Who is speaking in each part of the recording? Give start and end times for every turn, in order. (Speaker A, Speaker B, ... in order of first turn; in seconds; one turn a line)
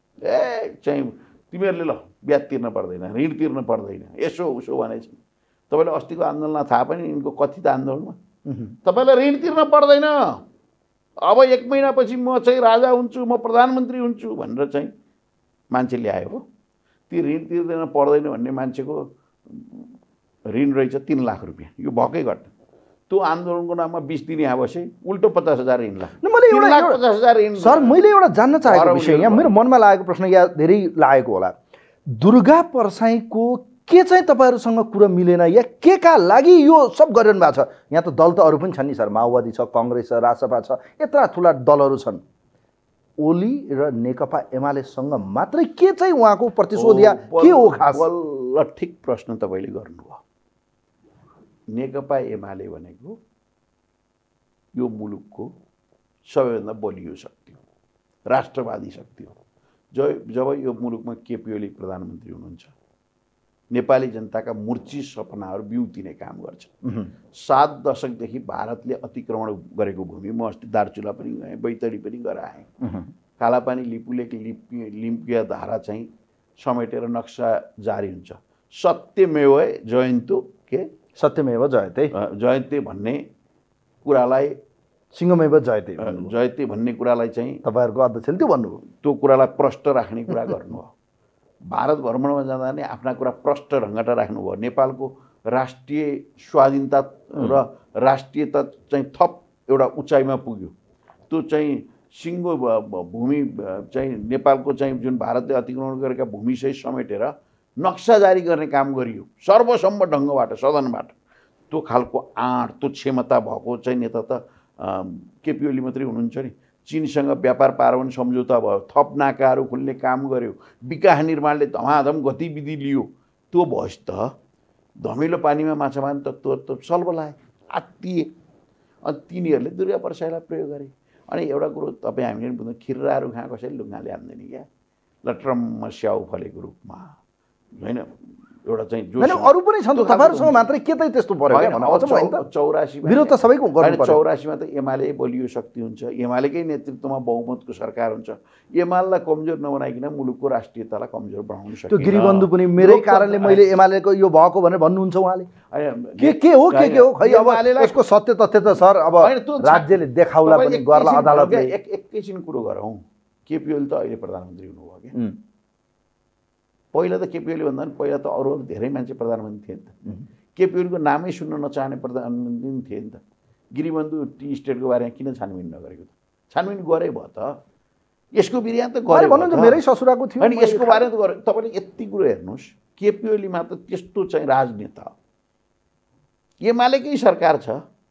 Speaker A: 0.2-5.2
Speaker A: 5.7-8.2
Speaker B: 8.4-8.7
Speaker A: 8.8-10.3
Speaker A: 11.2-14.9
Speaker A: 15.7-16.4
Speaker A: 17.1-19.9
Speaker A: 20.5-22.5
Speaker A: 23.1-28.0
Speaker B: 26.2-27.0
Speaker B: 27.6-31.5
Speaker A: 28.6-29.5
Speaker B: 32.1-42.2
Speaker B: 43.2-48.1
Speaker A: 46.7-50.2
Speaker A: 51.7-53.2
Speaker A: 54.7-55.5
Speaker A: 56.3-57.6
Speaker A: 58.3-59.3
Speaker A: 59.9-62.7
Speaker A: 63.7-66.7
Speaker B: 66.8-67.1
Speaker A: 67.3-72.7
Speaker B: 72.8-73.1
Speaker A: 73.4-76.1
Speaker A: 76.6-80.8
Speaker B: 81.2-82.1
Speaker A: 82.1-83.2
Speaker A: 84.0-84.5
Speaker B: 85.1-86.3
Speaker A: 86.0-87.6
Speaker B: 87.6-88.8
Speaker A: 88.9-90.9
Speaker A: 91.7-100.7
Speaker A: 101.3-111.1
Speaker A: 111.7-124.3
Speaker A: 125.0-128.3
Speaker A: 129.0-134.7
Speaker A: 135.2-137.1
Speaker A: 137.8-138.1
Speaker A: 138.6-140.7
Speaker B: 139.2-142.4
Speaker A: 141.5-153.7
Speaker B: 143.0-144.2
Speaker B: 151.9-155.5
Speaker A: 155.7-158.0
Speaker B: 156.2-161.7
Speaker A: 159.2-165.1
Speaker A: 166.9-169.9
Speaker A: 170.6-173.2
Speaker A: 173.7-177.6
Speaker A: 178.3-179.8
Speaker B: 179.1-181.1
Speaker A: 180.4-185.1
Speaker A: 186.6-187.8